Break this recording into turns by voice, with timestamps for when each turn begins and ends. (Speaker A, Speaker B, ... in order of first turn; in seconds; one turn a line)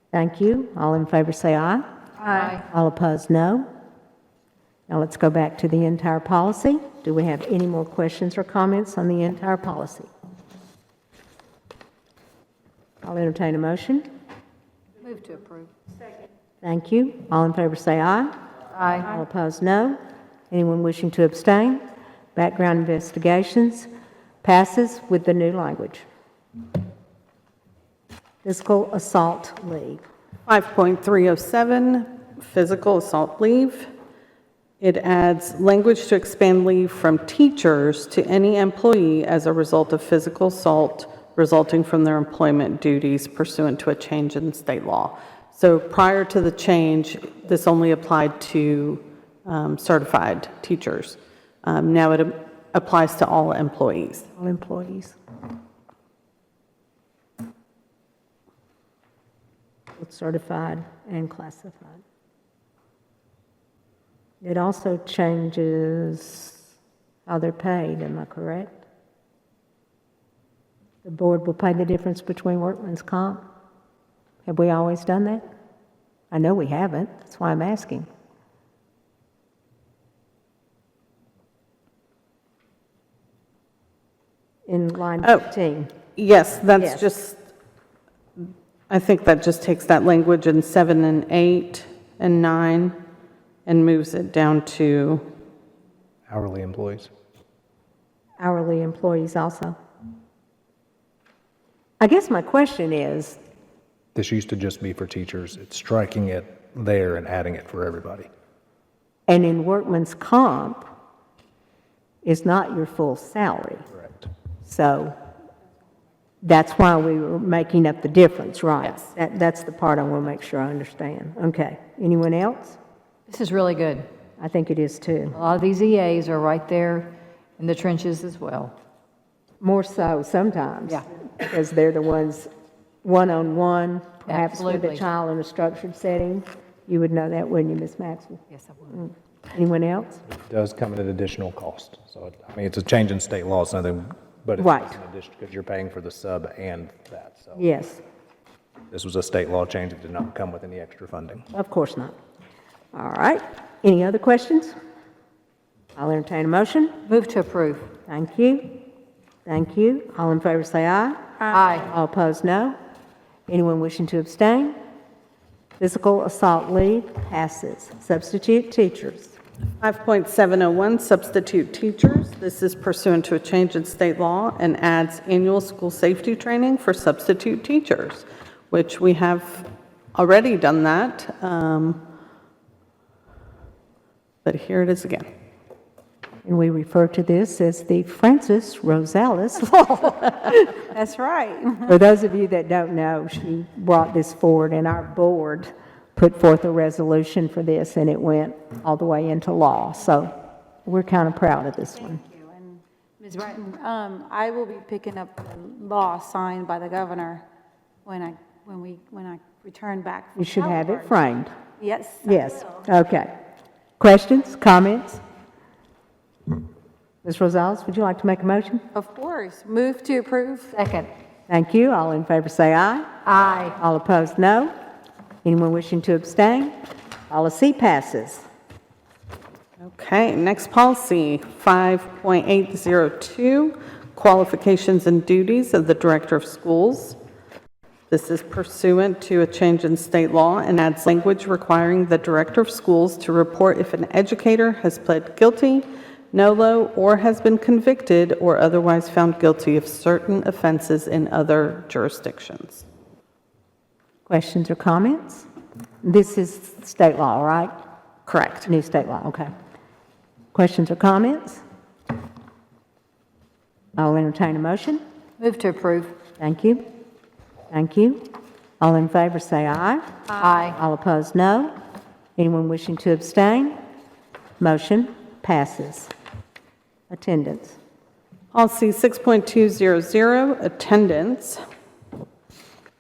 Speaker A: 0.1-3.7
Speaker B: 2.4-2.6
Speaker A: 4.9-10.1
Speaker A: 13.0-14.1
Speaker B: 15.0-15.7
Speaker A: 16.6-18.3
Speaker B: 18.7-19.1
Speaker A: 19.0-20.0
Speaker A: 20.5-21.8
Speaker A: 22.4-23.9
Speaker A: 24.4-26.0
Speaker A: 28.4-30.0
Speaker C: 30.5-33.9
Speaker C: 34.8-54.3
Speaker A: 54.4-55.2
Speaker A: 60.0-62.0
Speaker A: 64.4-66.7
Speaker A: 67.3-68.7
Speaker A: 71.0-73.4
Speaker A: 74.5-75.4
Speaker A: 76.3-78.1
Speaker A: 84.7-85.9
Speaker C: 86.2-87.5
Speaker A: 86.8-87.0
Speaker C: 88.4-93.0
Speaker C: 93.7-95.2
Speaker D: 96.3-97.1
Speaker A: 98.4-99.8
Speaker A: 102.0-103.4
Speaker D: 104.2-108.3
Speaker A: 109.3-110.8
Speaker A: 112.2-113.9
Speaker A: 114.6-115.2
Speaker A: 116.4-122.8
Speaker B: 123.3-124.1
Speaker A: 124.4-125.4
Speaker B: 125.3-128.7
Speaker A: 129.6-132.5
Speaker A: 133.0-140.2
Speaker B: 134.3-135.0
Speaker D: 140.3-147.6
Speaker A: 144.6-145.0
Speaker A: 147.6-148.0
Speaker D: 148.9-151.5
Speaker A: 151.5-152.2
Speaker A: 152.9-154.7
Speaker A: 156.0-157.0
Speaker B: 157.1-157.9
Speaker A: 158.1-158.7
Speaker A: 159.5-161.2
Speaker B: 161.5-161.9
Speaker A: 161.8-162.8
Speaker A: 163.5-164.8
Speaker A: 165.8-169.4
Speaker C: 169.8-182.0
Speaker C: 184.4-185.3
Speaker A: 186.4-190.8
Speaker E: 190.9-191.8
Speaker A: 191.9-200.3
Speaker A: 200.9-202.2
Speaker E: 202.2-207.4
Speaker E: 208.1-210.9
Speaker A: 210.3-211.5
Speaker E: 211.8-212.5
Speaker A: 212.2-213.3
Speaker A: 214.0-215.2
Speaker A: 217.2-218.8
Speaker E: 218.9-220.7
Speaker B: 220.7-221.1
Speaker A: 221.5-223.1
Speaker B: 223.3-223.8
Speaker A: 223.8-224.7
Speaker A: 225.4-226.8
Speaker A: 227.3-228.4
Speaker C: 229.8-237.2
Speaker C: 238.1-252.8
Speaker A: 254.3-255.5
Speaker A: 256.0-257.7
Speaker C: 258.3-258.7
Speaker A: 258.6-259.5
Speaker A: 260.5-261.6
Speaker A: 264.0-265.0
Speaker B: 265.4-266.1
Speaker A: 266.4-266.8
Speaker A: 267.7-268.3
Speaker A: 268.8-270.1
Speaker B: 270.3-270.8
Speaker A: 270.8-271.7
Speaker A: 272.4-273.8
Speaker A: 274.6-276.1
Speaker A: 277.1-277.8
Speaker C: 278.5-281.6